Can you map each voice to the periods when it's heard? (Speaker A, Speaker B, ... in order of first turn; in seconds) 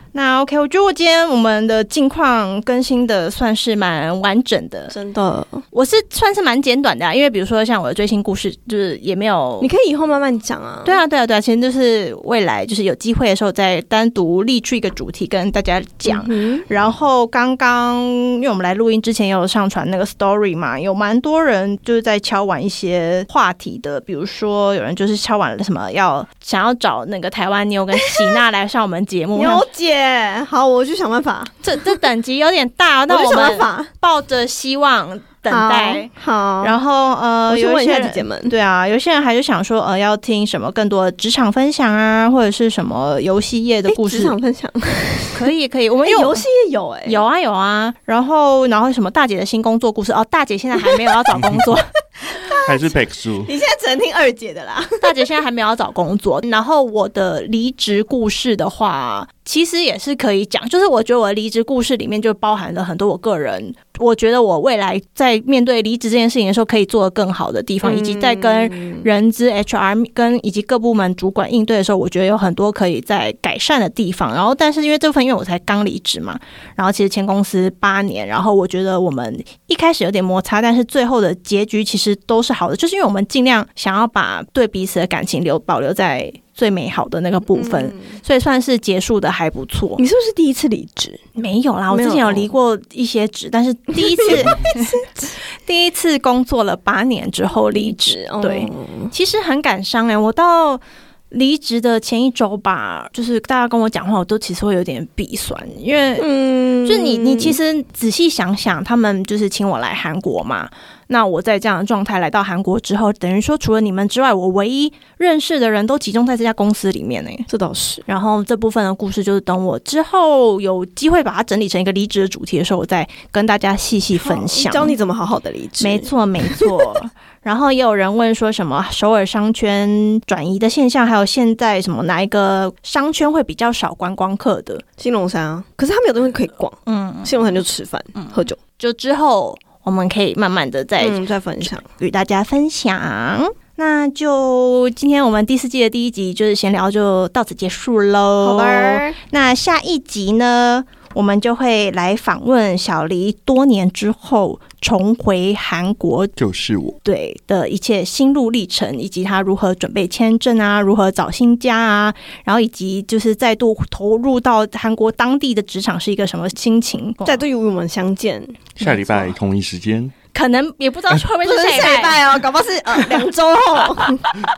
Speaker A: 0.1-4.9, 5.7-9.7, 10.8-29.6, 31.6-36.1, 36.6-44.4, 45.3-46.4, 47.0-51.9, 55.0-90.0, 91.3-95.0, 95.6-106.3, 106.8-117.5, 118.1-125.0, 125.8-134.8, 136.8-137.6, 138.2-156.3, 157.0-167.4, 170.3-172.2
Speaker B: 4.9-5.6, 9.6-11.0, 16.0-16.6, 28.0-28.4, 29.3-31.6, 33.1-33.9, 35.5-36.8, 37.5-38.5, 43.9-45.4, 46.0-47.2, 52.5-55.2, 67.8-69.0, 87.5-88.2, 90.0-91.2, 91.9-92.5, 94.0-95.0, 97.7-99.1, 106.2-107.6, 117.5-118.0, 124.2-126.9, 135.0-138.6, 141.0-141.8, 148.4-149.2, 167.2-169.3, 171.4-174.3
Speaker C: 52.6-53.5, 156.4-157.0, 168.8-170.1